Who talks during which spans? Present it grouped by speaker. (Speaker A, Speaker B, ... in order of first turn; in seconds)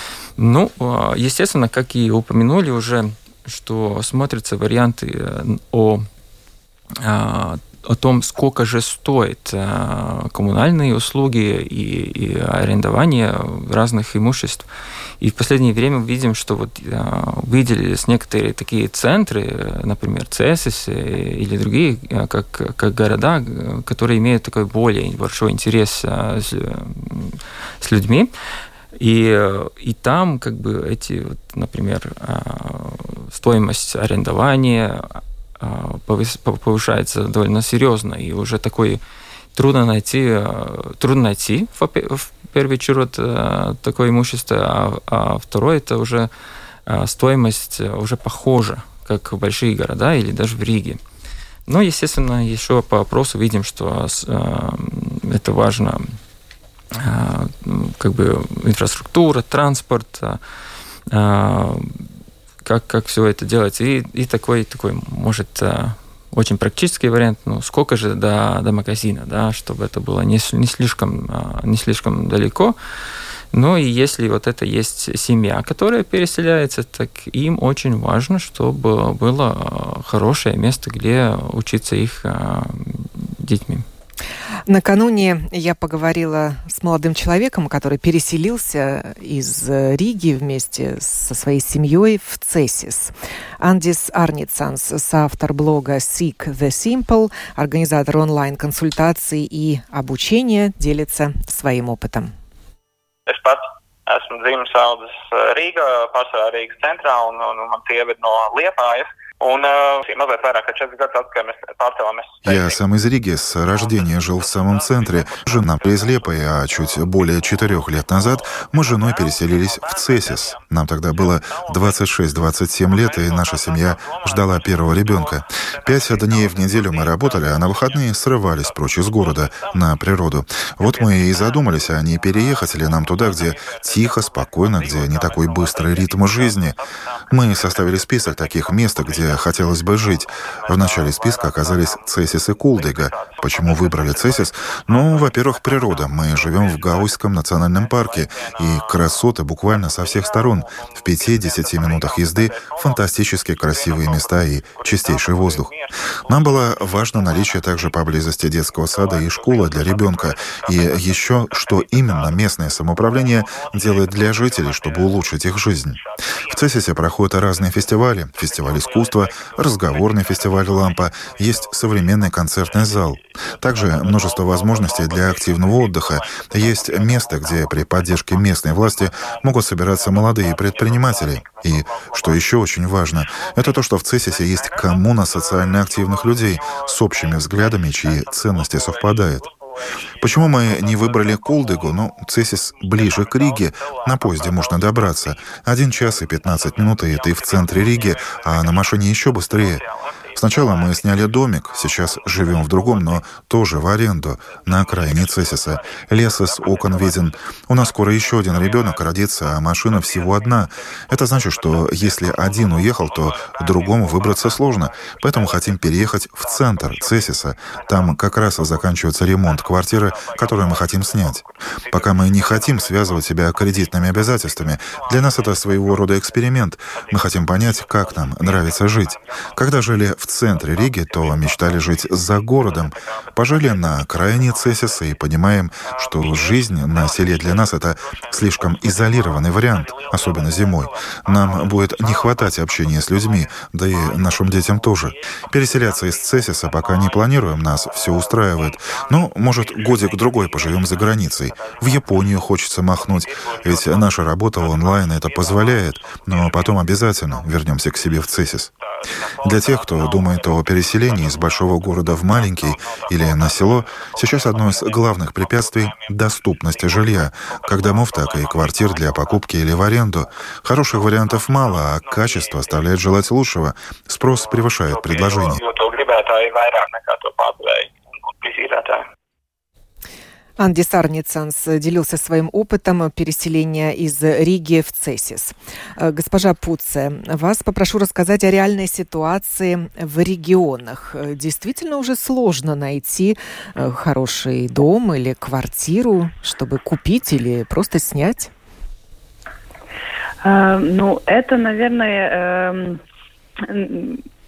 Speaker A: 0.4-6.1, 7.0-14.7, 15.2-28.3, 29.0-39.0, 39.5-46.3, 46.9-51.0, 51.7-56.1, 57.0-60.4, 61.1-62.0, 62.6-72.8, 73.5-83.8
Speaker B: 84.7-102.3, 280.6-298.5
Speaker C: 103.3-112.7, 155.0-155.9, 175.5-176.1, 180.5-181.6, 188.6-188.9, 190.8-191.7, 193.0-193.6, 197.1-198.6, 220.5-221.3, 221.9-223.1, 225.0-225.5, 236.4-237.5, 238.9-239.2, 239.8-240.7, 249.9-250.5, 260.0-260.6, 261.2-261.6, 262.3-263.6, 264.1-264.8, 267.8-269.2, 272.0-272.9, 274.4-279.0
Speaker D: 112.5-136.8, 137.3-189.5, 190.2-199.8, 200.4-258.7, 259.4-275.6
Speaker E: 300.4-303.0, 303.6-304.2